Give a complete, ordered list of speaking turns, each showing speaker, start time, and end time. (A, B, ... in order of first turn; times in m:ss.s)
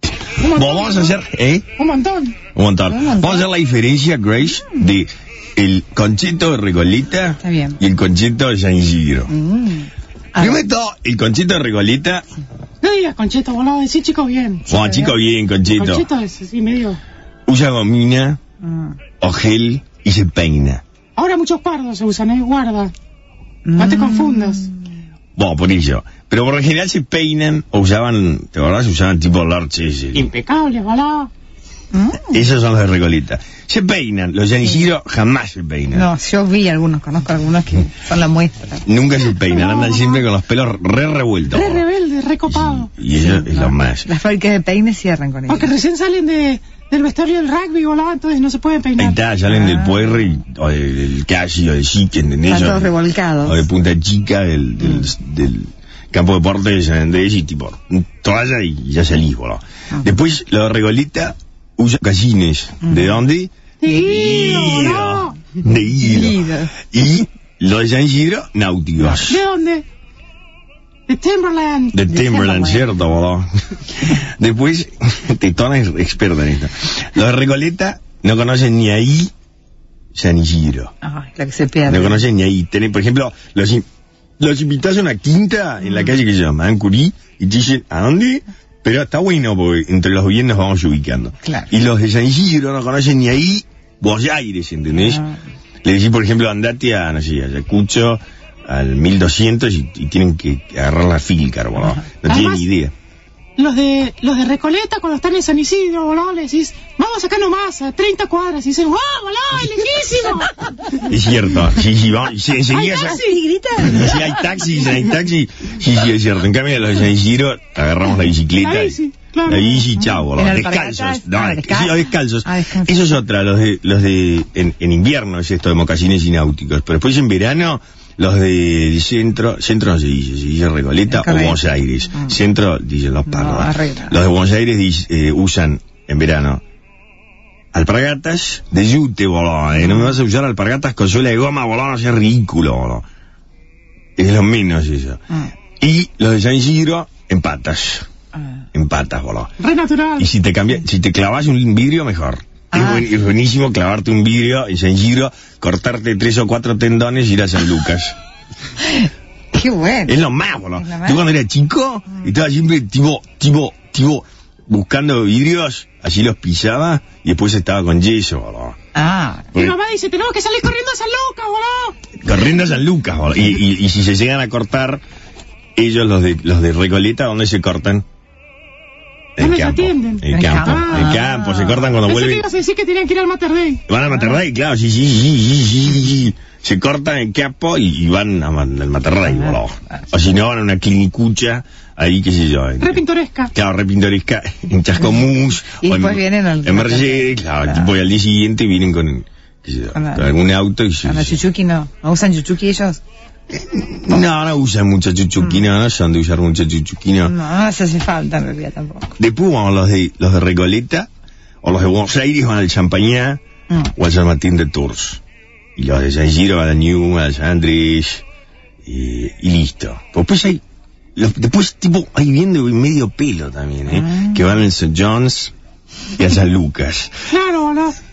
0:00.4-0:01.2 A
0:00.4-0:01.7 B
0:01.8-0:02.4 A
0:02.5-0:09.3 B
0:02.9-0:03.5 C
0:07.4-0:07.8 C
0:09.3-0:10.6 C
0:10.4-0:12.2 B
0:12.8-0:14.7 A
0:14.7-0:15.2 C
0:14.7-0:16.1 B
0:15.7-0:17.0 A
0:17.5-0:18.4 B
0:18.6-0:19.0 C
0:19.2-0:20.8 B
0:21.2-0:22.9 A
0:23.6-0:24.8 C
0:23.8-0:24.7 A
0:25.3-0:30.3 B
0:30.1-0:31.3 A
0:31.9-0:32.4 C
0:32.2-0:36.1 B
0:35.9-0:38.8 C
0:38.8-0:41.8 B
0:39.4-0:40.2 A
0:41.5-0:42.9 A
0:42.4-0:44.1 B
0:43.1-0:45.7 C
0:45.5-0:49.2 A
0:49.0-1:09.4 B
0:49.5-0:50.3 C
0:52.5-0:53.6 C
0:54.8-0:55.1 C
1:02.8-1:03.2 C
1:03.8-1:05.4 A
1:06.0-1:06.7 C
1:09.1-1:09.8 A
1:11.1-1:12.0 A
1:11.9-1:19.3 B
1:12.1-1:12.9 C
1:20.1-1:20.9 B
1:21.0-1:22.2 C
1:21.8-1:23.8 B
1:24.4-1:35.2 B
1:25.8-1:26.2 C
1:31.4-1:31.7 C
1:34.9-1:35.3 C
1:35.8-1:42.9 B
1:42.3-1:42.7 A
1:43.6-1:50.8 A
1:50.9-1:53.2 B
1:52.7-1:53.4 A
1:52.7-1:54.6 C
1:53.8-2:16.6 B
1:58.6-2:00.0 A
2:00.2-2:03.1 C
2:11.1-2:11.6 C
2:13.2-2:14.2 C
2:17.7-2:23.0 B
2:19.8-2:20.2 C
2:24.2-2:25.2 B
2:25.8-2:28.1 B
2:28.7-2:29.5 B
2:29.6-2:30.3 A
2:30.2-2:38.2 B
2:32.7-2:33.1 C
2:38.8-2:40.2 C
2:40.0-2:48.8 B
2:40.8-2:41.2 C
2:48.9-2:49.5 C
2:49.5-2:52.0 A
2:52.2-2:55.0 B
2:55.8-2:58.0 B
2:59.4-3:02.5 B
2:59.4-3:01.3 A
3:00.3-3:01.9 C
3:01.9-3:03.8 A
3:03.9-3:21.4 B
3:09.3-3:09.5 C
3:12.8-3:13.5 A
3:15.2-3:17.9 C
3:19.9-3:20.3 C
3:21.0-3:23.0 C
3:23.5-3:27.3 B
3:25.4-3:25.7 C
3:27.2-3:29.2 C
3:29.2-3:31.1 B
3:31.6-3:35.2 B
3:35.8-3:38.2 B
3:38.8-3:40.6 B
3:41.2-3:45.5 B
3:43.9-3:44.4 C
3:46.1-3:47.3 B
3:47.3-3:48.0 A